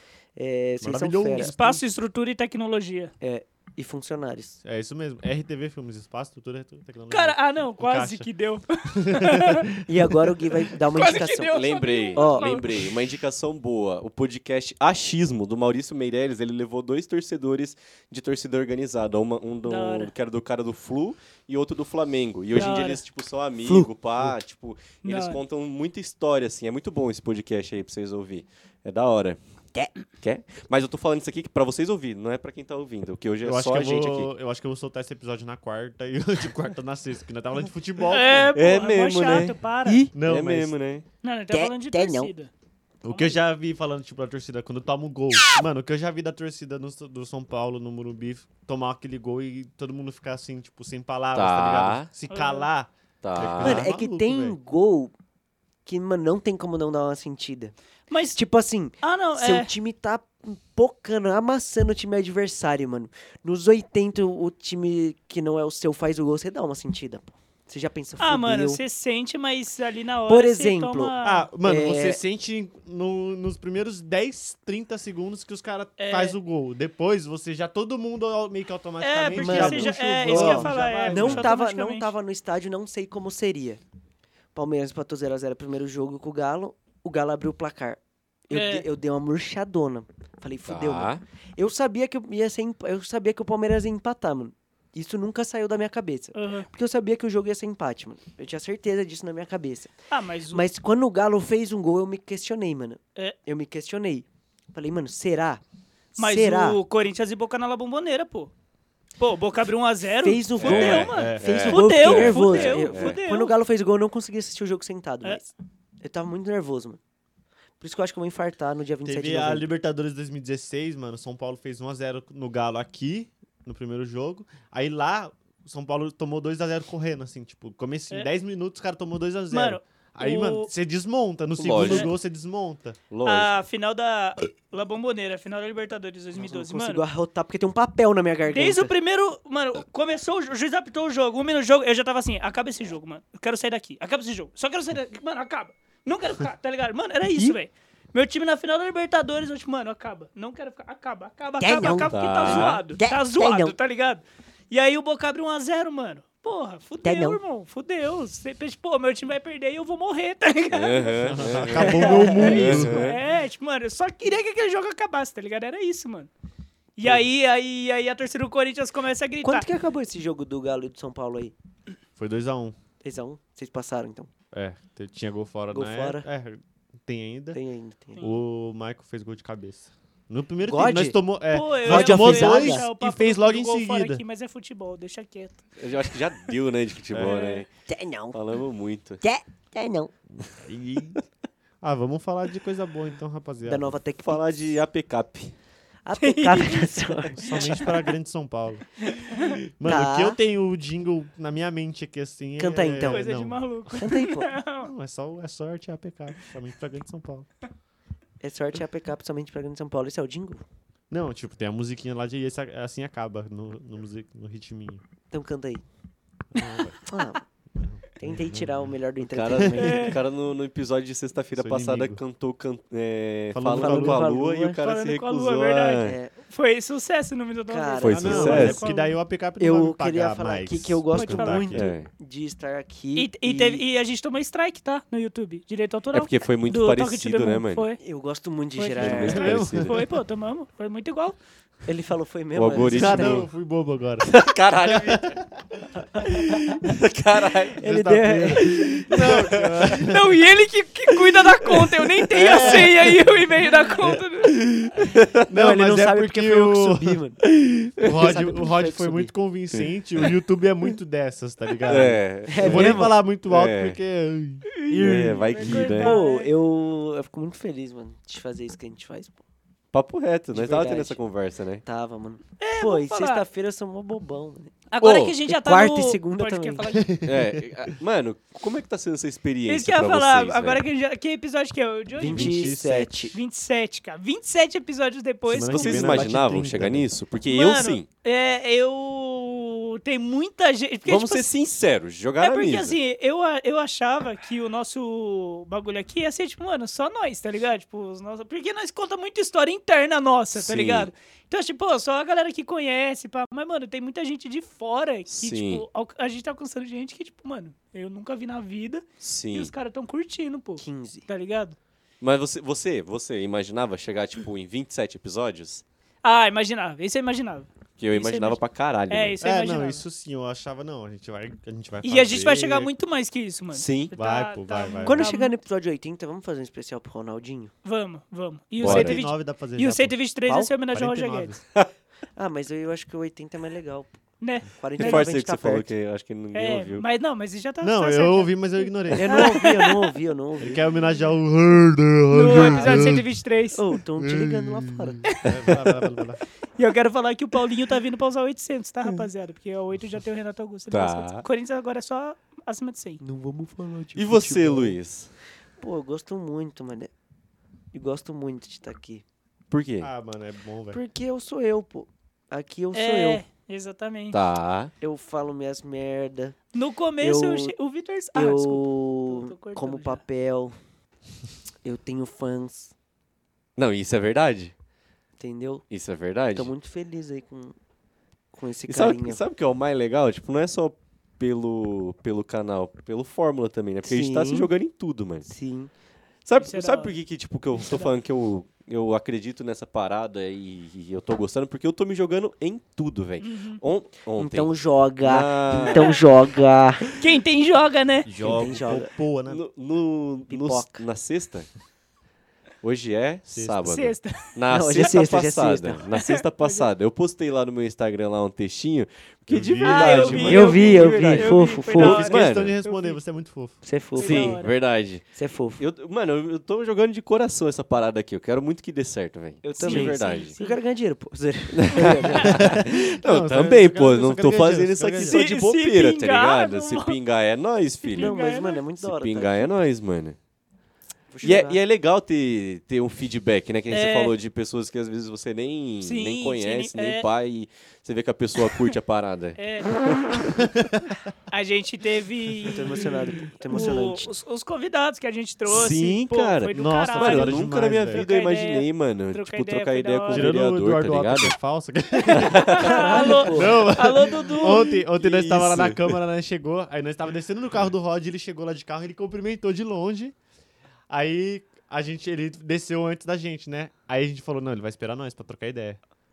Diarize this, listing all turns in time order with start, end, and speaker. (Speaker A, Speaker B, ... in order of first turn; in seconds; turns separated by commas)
Speaker A: 0.3-1.5, Speaker B: 0.8-1.8, Speaker C: 1.4-3.1, Speaker A: 3.2-4.6, Speaker B: 4.6-8.3, Speaker C: 7.1-9.7, Speaker B: 8.9-10.2, Speaker A: 9.8-11.6, Speaker C: 10.9-12.8, Speaker D: 11.5-29.4, Speaker A: 12.1-12.6, Speaker C: 19.6-20.1, Speaker C: 22.5-23.0, Speaker A: 23.6-23.9, Speaker C: 25.0-25.4, Speaker D: 30.2-34.3, Speaker B: 33.4-38.5, Speaker C: 38.1-40.0, Speaker D: 38.5-39.5, Speaker A: 39.8-40.1, Speaker B: 40.1-40.7, Speaker D: 40.2-41.0, Speaker C: 41.2-42.5, Speaker A: 41.5-42.3, Speaker B: 43.0-54.6, Speaker C: 43.1-43.4, Speaker D: 51.3-52.1, Speaker C: 52.3-52.7, Speaker D: 53.2-53.9, Speaker A: 53.6-55.1, Speaker A: 55.8-57.7, Speaker C: 58.1-58.4, Speaker A: 58.3-68.8, Speaker C: 59.0-59.7, Speaker C: 68.2-71.5, Speaker A: 70.3-72.2, Speaker B: 71.2-81.5, Speaker C: 76.0-76.4, Speaker C: 79.0-82.1, Speaker A: 79.3-83.8, Speaker A: 84.5-99.9, Speaker C: 88.5-88.8, Speaker D: 90.7-91.2, Speaker C: 96.3-96.7, Speaker C: 100.1-100.7, Speaker A: 100.5-105.6, Speaker A: 106.2-106.8, Speaker C: 106.2-108.5, Speaker C: 109.2-113.5, Speaker A: 110.1-117.0, Speaker D: 110.6-113.2, Speaker B: 111.1-111.7, Speaker A: 117.8-119.7, Speaker B: 119.0-133.0, Speaker C: 129.5-130.7, Speaker D: 131.6-132.1, Speaker C: 131.8-132.1, Speaker D: 133.1-133.5, Speaker C: 133.2-137.0, Speaker A: 136.3-138.9, Speaker C: 138.5-166.3, Speaker A: 151.6-153.8, Speaker D: 151.8-152.8, Speaker A: 157.0-157.4, Speaker D: 160.7-163.2, Speaker B: 161.2-163.2, Speaker A: 161.9-162.6, Speaker C: 167.0-169.7, Speaker A: 169.4-171.5, Speaker B: 172.2-172.8, Speaker A: 173.0-174.3, Speaker B: 174.5-177.6, Speaker A: 175.7-176.2, Speaker A: 177.5-178.2, Speaker B: 178.2-184.2, Speaker A: 180.6-181.2, Speaker C: 181.5-185.6, Speaker A: 181.8-182.9, Speaker D: 185.8-187.7, Speaker C: 187.2-187.6, Speaker A: 187.9-188.3, Speaker D: 188.3-189.2, Speaker A: 189.2-190.1, Speaker B: 190.4-191.2, Speaker B: 191.8-193.9, Speaker A: 193.6-194.8, Speaker D: 194.2-195.5, Speaker A: 196.0-197.8, Speaker C: 196.2-197.9, Speaker B: 197.3-198.9, Speaker C: 199.1-199.6, Speaker B: 199.8-203.6, Speaker A: 199.8-200.4, Speaker A: 202.6-203.3, Speaker C: 203.0-204.9, Speaker A: 203.9-204.5, Speaker B: 204.8-207.5, Speaker A: 208.4-210.6, Speaker B: 211.1-215.0, Speaker A: 215.3-215.8, Speaker B: 216.5-217.0, Speaker A: 217.1-217.4, Speaker B: 217.7-218.9, Speaker A: 218.2-220.2, Speaker D: 219.3-226.2, Speaker C: 219.8-220.2, Speaker B: 221.5-222.2, Speaker B: 223.5-224.2, Speaker A: 223.7-224.8, Speaker C: 224.8-229.1, Speaker A: 226.0-226.3, Speaker A: 227.7-228.9, Speaker D: 228.0-228.8, Speaker B: 228.1-231.9, Speaker A: 229.6-233.8, Speaker C: 231.1-231.8, Speaker D: 231.7-232.1, Speaker C: 233.1-238.0, Speaker D: 236.1-237.9, Speaker A: 238.0-239.6, Speaker C: 238.8-241.4, Speaker D: 239.0-240.0, Speaker B: 239.2-240.0, Speaker A: 241.8-243.5, Speaker D: 242.5-243.5, Speaker B: 242.9-245.6, Speaker D: 244.2-245.4, Speaker D: 246.2-247.8, Speaker A: 247.8-249.3, Speaker B: 247.8-250.3, Speaker D: 248.8-250.0, Speaker C: 249.9-254.6, Speaker D: 251.6-253.3, Speaker B: 252.3-253.2, Speaker D: 254.5-255.4, Speaker B: 255.5-257.2, Speaker A: 255.5-257.4, Speaker D: 257.4-258.3, Speaker B: 258.0-264.6, Speaker A: 258.1-259.3, Speaker D: 259.7-260.3, Speaker D: 261.9-264.0, Speaker A: 262.5-263.1, Speaker C: 264.7-266.5, Speaker A: 264.9-269.4, Speaker D: 264.9-266.2, Speaker D: 269.9-271.8, Speaker A: 270.5-271.2, Speaker A: 271.8-274.8, Speaker C: 272.6-273.4, Speaker C: 274.9-277.1, Speaker D: 275.0-275.4, Speaker A: 275.4-276.9, Speaker B: 276.9-277.9, Speaker D: 277.2-280.8, Speaker C: 279.7-282.7, Speaker A: 282.1-283.4, Speaker B: 282.2-283.3, Speaker C: 283.3-286.2, Speaker B: 285.5-287.1, Speaker D: 285.7-288.1, Speaker C: 287.5-291.4, Speaker D: 291.1-293.0, Speaker C: 292.4-311.8, Speaker D: 300.5-301.1, Speaker D: 305.3-305.8, Speaker D: 309.2-309.7, Speaker A: 310.8-311.2, Speaker D: 312.2-315.8, Speaker C: 316.2-320.0, Speaker D: 318.0-319.4, Speaker B: 319.4-322.9, Speaker C: 322.0-325.6, Speaker D: 323.7-324.1, Speaker B: 324.1-325.3, Speaker A: 325.0-327.7, Speaker C: 327.8-331.6, Speaker D: 328.8-329.2, Speaker B: 328.8-330.2, Speaker B: 330.9-331.6, Speaker A: 332.4-334.2, Speaker C: 334.4-335.3, Speaker A: 334.8-335.9, Speaker D: 334.9-337.0, Speaker C: 336.5-340.0, Speaker B: 337.8-339.5, Speaker A: 339.1-340.8, Speaker B: 340.6-343.2, Speaker C: 342.3-343.9, Speaker A: 342.6-342.9, Speaker A: 343.7-345.3, Speaker B: 344.2-346.4, Speaker C: 346.8-353.2, Speaker D: 350.9-351.4, Speaker A: 353.2-355.0, Speaker D: 354.1-355.3, Speaker A: 355.8-357.1, Speaker A: 357.9-359.2, Speaker D: 359.7-360.1, Speaker B: 360.0-361.0, Speaker A: 360.9-363.4, Speaker C: 362.9-364.4, Speaker D: 364.3-364.9, Speaker A: 365.0-366.6, Speaker C: 366.7-370.2, Speaker A: 367.2-367.7, Speaker A: 368.3-370.8, Speaker A: 371.8-372.9, Speaker D: 373.8-374.7, Speaker A: 375.4-375.9, Speaker D: 375.9-376.7, Speaker A: 376.5-377.7, Speaker A: 378.5-379.4, Speaker D: 378.9-385.5, Speaker A: 384.0-384.7, Speaker A: 385.4-385.9, Speaker D: 386.4-396.2, Speaker C: 386.6-387.2, Speaker C: 393.4-393.8, Speaker A: 394.4-397.1, Speaker C: 395.9-396.2, Speaker C: 397.2-398.3, Speaker B: 398.2-399.6, Speaker A: 398.4-399.1, Speaker D: 399.5-401.7, Speaker A: 400.5-401.0, Speaker D: 402.8-412.7, Speaker B: 403.5-403.8, Speaker C: 403.8-404.5, Speaker A: 404.7-406.0, Speaker C: 406.2-406.9, Speaker B: 409.5-411.2, Speaker C: 409.8-413.2, Speaker A: 410.3-412.3, Speaker B: 411.9-413.8, Speaker A: 413.8-414.6, Speaker C: 414.1-414.7, Speaker D: 414.2-415.2, Speaker A: 415.3-415.8, Speaker D: 415.8-420.6, Speaker A: 419.6-422.8, Speaker C: 419.8-420.8, Speaker D: 421.7-428.3, Speaker C: 422.0-422.5, Speaker B: 422.5-425.4, Speaker C: 425.2-427.1, Speaker C: 428.0-428.8, Speaker A: 428.1-429.7, Speaker D: 429.0-430.4, Speaker A: 431.3-431.8, Speaker D: 431.4-439.6, Speaker C: 433.9-434.3, Speaker C: 436.0-437.3, Speaker C: 439.6-440.4, Speaker C: 441.5-443.1, Speaker A: 442.6-444.3, Speaker C: 443.7-450.5, Speaker D: 445.7-451.6, Speaker B: 446.7-448.3, Speaker B: 450.3-460.3, Speaker C: 452.3-455.0, Speaker D: 452.3-453.4, Speaker A: 452.8-453.9, Speaker D: 455.2-456.2, Speaker B: 461.1-466.0